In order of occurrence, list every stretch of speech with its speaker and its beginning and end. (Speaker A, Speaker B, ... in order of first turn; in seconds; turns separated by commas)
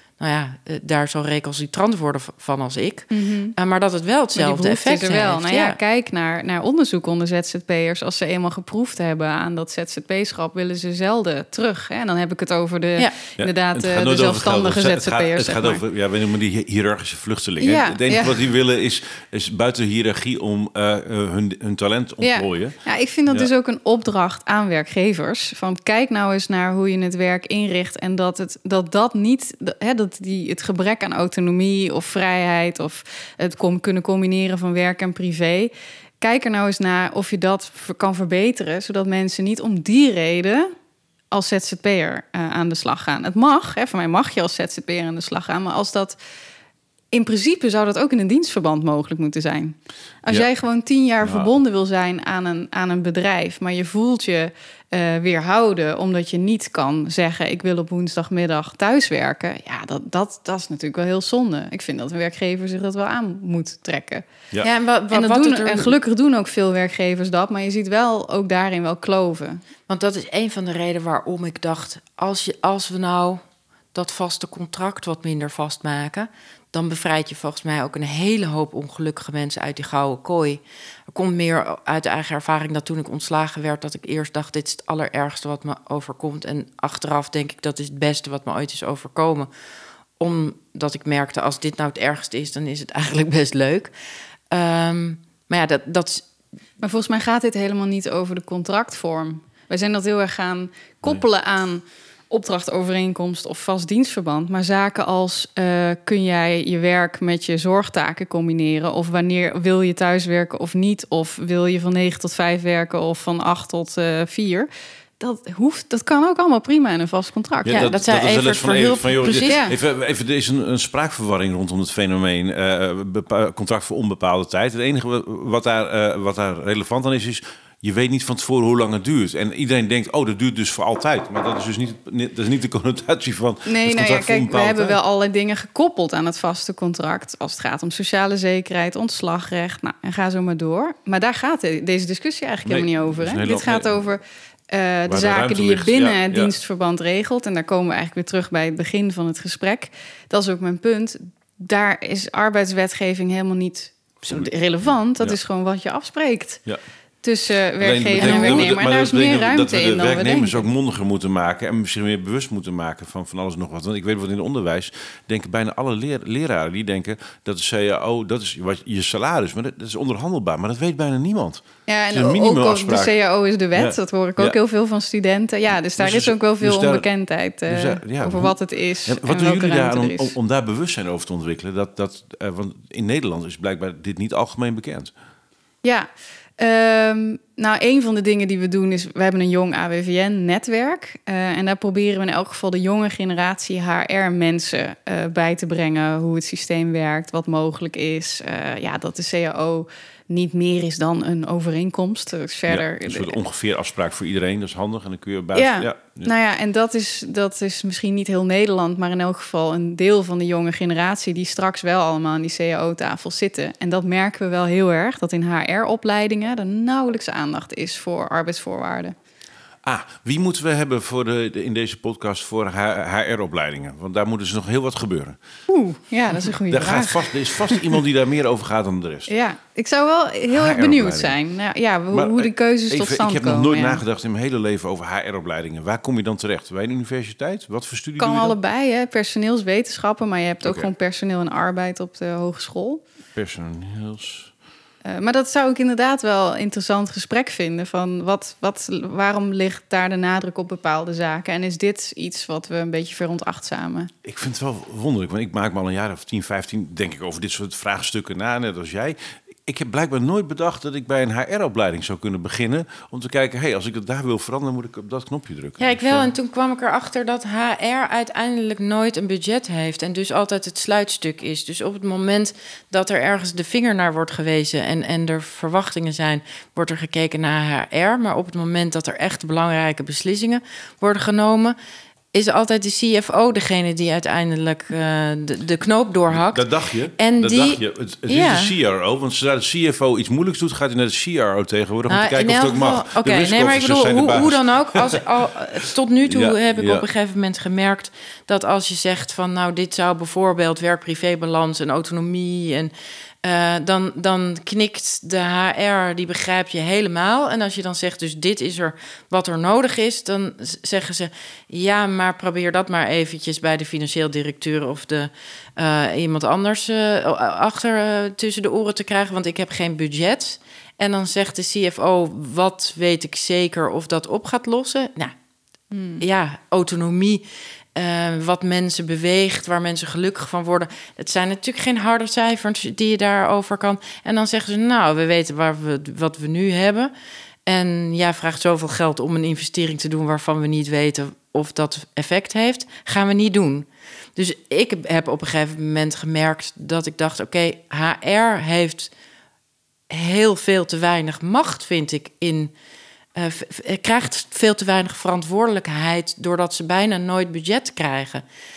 Speaker A: 0.2-5.8, Speaker B: 3.1-3.5, Speaker B: 4.4-15.8, Speaker C: 13.4-22.8, Speaker B: 17.6-18.4, Speaker B: 22.2-40.7, Speaker B: 41.3-46.2, Speaker B: 47.1-64.2, Speaker C: 51.2-51.5, Speaker A: 64.6-65.9, Speaker B: 65.1-69.6, Speaker A: 69.9-73.4, Speaker A: 73.9-89.5, Speaker A: 90.2-93.9, Speaker A: 94.5-96.3, Speaker B: 96.8-114.7, Speaker B: 115.2-118.0, Speaker C: 117.7-135.0, Speaker A: 117.7-119.6, Speaker B: 119.5-119.7, Speaker B: 133.7-156.6, Speaker C: 142.7-144.0, Speaker C: 145.1-146.5, Speaker B: 157.2-160.7, Speaker C: 157.8-173.1, Speaker A: 158.2-158.5, Speaker B: 171.9-180.3, Speaker C: 173.8-174.6, Speaker C: 176.0-177.1, Speaker C: 177.7-185.1, Speaker B: 186.6-203.4, Speaker C: 202.7-206.3, Speaker B: 205.5-219.2, Speaker C: 219.8-225.4, Speaker B: 225.7-228.0, Speaker C: 226.3-229.3, Speaker B: 229.3-234.0, Speaker C: 230.5-231.4, Speaker C: 232.1-238.6, Speaker B: 238.2-243.0, Speaker C: 240.6-240.9, Speaker C: 243.3-244.5, Speaker B: 245.1-254.1, Speaker C: 254.2-266.3, Speaker A: 265.8-281.8, Speaker A: 282.3-288.8, Speaker C: 286.3-295.2, Speaker A: 292.1-302.9, Speaker C: 296.3-297.1, Speaker A: 303.4-325.3, Speaker B: 325.9-326.2, Speaker A: 326.2-337.1, Speaker A: 337.7-349.1, Speaker A: 350.1-352.7, Speaker A: 353.4-358.4